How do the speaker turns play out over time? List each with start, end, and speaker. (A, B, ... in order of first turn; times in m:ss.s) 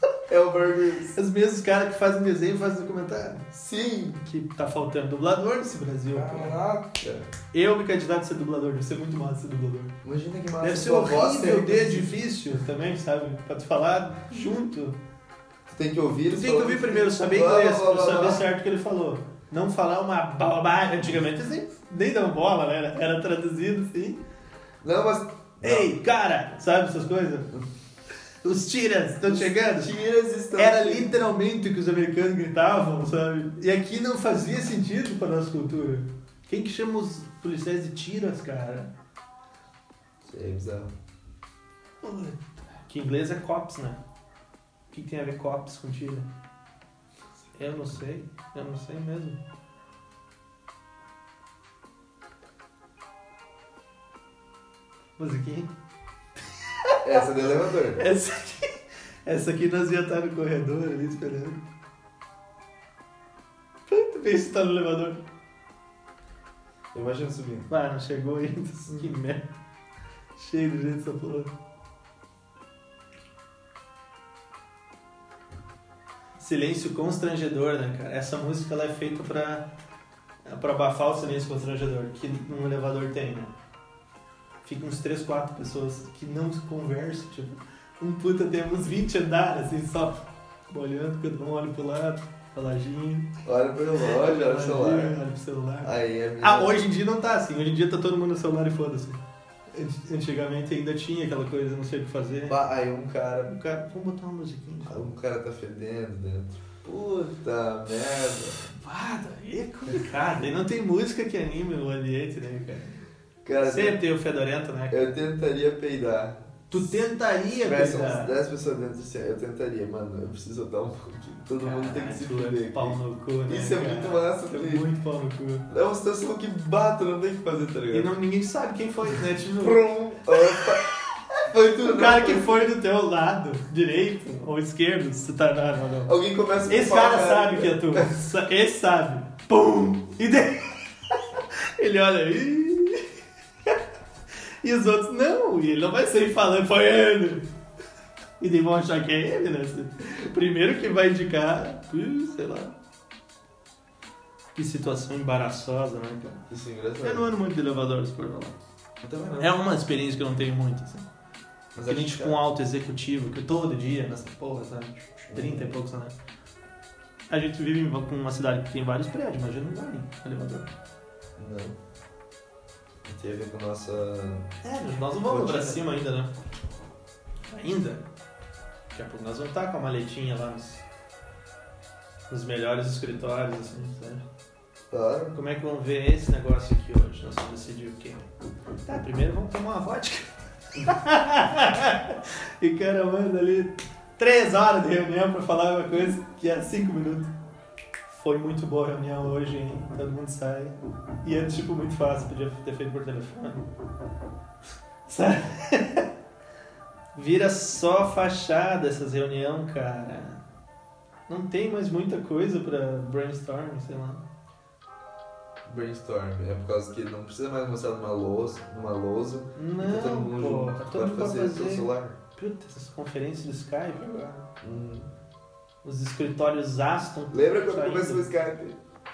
0:00.3-0:01.2 A
0:01.1-0:03.4 B
0:03.5-0:04.2 A
0:04.2-0:06.6 B
0:06.1-0:07.3 A
0:07.5-0:10.0 B
0:10.0-0:12.2 A
0:10.6-0:15.0 B
0:15.7-0:18.4 A
0:16.3-0:24.2 B
0:24.8-0:25.9 A
0:25.6-0:27.5 B
0:28.4-0:29.9 B
0:29.3-0:31.1 A
0:30.6-0:38.9 B
0:40.2-0:40.9 A
0:42.0-0:44.0 B
0:44.9-0:46.3 B
0:47.6-0:49.4 B
0:55.2-0:55.7 B
0:56.8-1:01.6 B
0:57.0-0:58.0 A
1:03.9-1:05.2 B
1:06.9-1:07.7 A
1:07.7-1:09.5 B
1:10.4-1:11.5 B
1:16.4-1:19.7 B
1:20.4-1:23.5 B
1:24.6-1:33.3 B
1:33.4-1:35.2 A
1:34.0-1:42.6 B
1:35.8-1:36.8 A
1:42.5-1:43.6 A
1:43.5-1:45.0 B
1:44.9-1:48.7 A
1:48.7-1:53.0 B
1:53.4-1:54.0 A
1:53.6-1:55.1 B
1:54.9-1:56.9 A
1:56.7-1:58.4 B
1:57.6-2:04.9 A
2:01.6-2:05.6 B
2:05.7-2:08.1 A
2:07.9-2:10.9 B
2:09.6-2:12.5 A
2:11.8-2:16.1 B
2:16.0-2:18.1 A
2:16.7-2:23.1 B
2:24.6-2:27.5 B
2:28.4-2:32.7 B
2:34.6-2:36.4 B
2:36.5-2:37.3 A
2:37.0-2:38.6 B
2:39.0-2:39.6 A
2:39.4-2:41.1 B
2:41.8-2:42.4 A
2:41.9-2:46.1 B
2:45.3-2:45.8 A
2:47.3-2:50.7 B
2:51.4-2:51.8 A
2:53.0-2:54.5 A
2:54.6-2:56.3 B
2:55.2-2:55.8 A
2:57.5-2:58.0 B
2:58.9-3:00.8 B
3:02.3-3:04.2 B
3:04.9-3:05.4 A
3:05.3-3:08.3 B
3:08.8-3:17.3 B
3:18.1-3:23.7 B
3:25.1-3:26.1 B
3:27.1-3:30.4 B
3:31.3-3:34.2 B
3:35.6-3:42.2 A
3:39.6-3:44.5 B
3:44.6-3:45.1 A
3:45.8-3:48.2 B
3:47.3-3:48.8 A